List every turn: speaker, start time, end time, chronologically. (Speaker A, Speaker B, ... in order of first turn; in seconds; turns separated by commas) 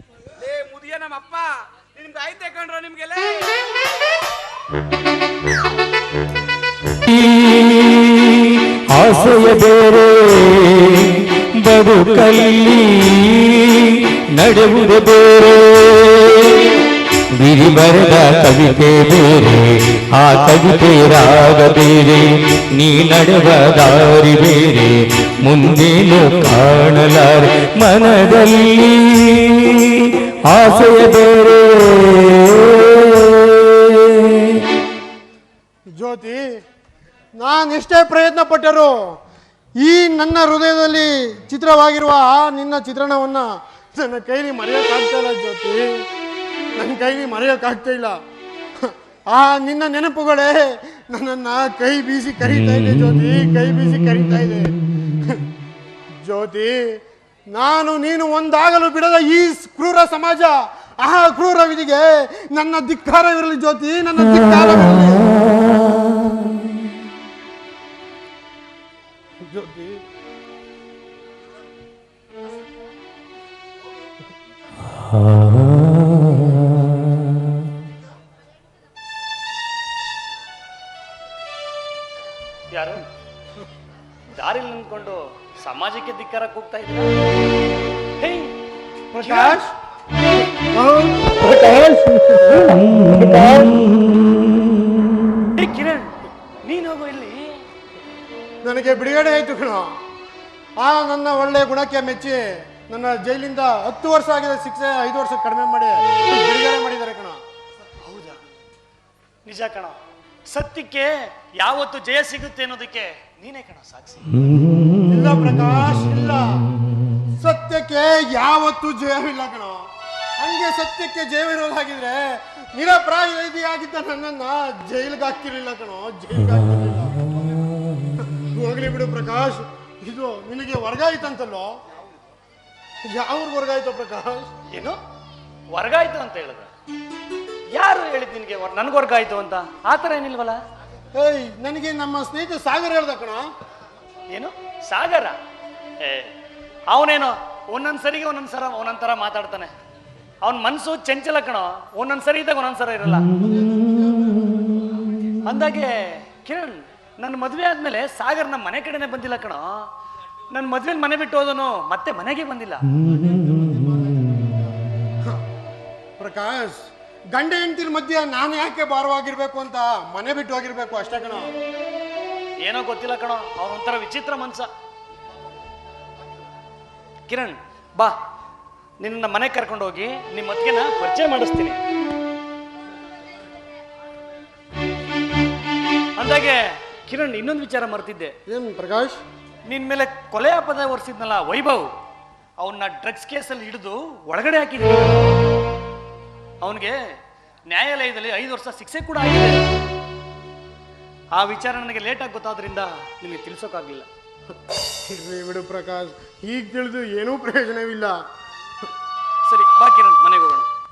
Speaker A: 0.4-3.6, Speaker B: 7.1-16.8, Speaker B: 17.3-34.7, Speaker C: 36.0-36.5, Speaker C: 37.4-39.2, Speaker C: 39.8-46.0, Speaker C: 46.8-48.2, Speaker C: 48.8-55.5, Speaker C: 56.2-56.9, Speaker C: 57.5-65.3, Speaker C: 69.4-70.0, Speaker D: 82.7-83.0, Speaker D: 84.3-87.1, Speaker D: 88.2-88.5, Speaker C: 89.1-89.7, Speaker D: 89.2-89.6, Speaker C: 90.5-93.7, Speaker D: 95.6-97.6, Speaker C: 98.6-99.9, Speaker C: 100.8-107.4, Speaker D: 108.0-108.4, Speaker D: 109.4-109.9, Speaker D: 110.5-114.5, Speaker C: 115.0-116.7, Speaker C: 117.3-119.9, Speaker C: 120.4-127.5, Speaker C: 128.2-131.7, Speaker C: 133.1-134.5, Speaker D: 135.7-136.7, Speaker D: 137.7-140.6, Speaker C: 141.1-143.4, Speaker D: 144.3-145.4, Speaker D: 146.0-146.3, Speaker D: 146.9-149.7, Speaker D: 150.4-153.3, Speaker C: 153.3-155.0, Speaker D: 155.4-159.9, Speaker D: 160.5-162.9, Speaker C: 163.0-165.4, Speaker C: 166.2-171.5, Speaker D: 172.6-174.7, Speaker D: 177.3-178.1, Speaker D: 179.0-181.8, Speaker D: 186.2-188.3, Speaker C: 188.5-189.2, Speaker D: 189.7-191.9, Speaker D: 192.6-195.4, Speaker D: 196.6-197.0, Speaker D: 197.7-199.6, Speaker D: 201.3-204.1, Speaker C: 205.1-208.2, Speaker D: 209.4-210.7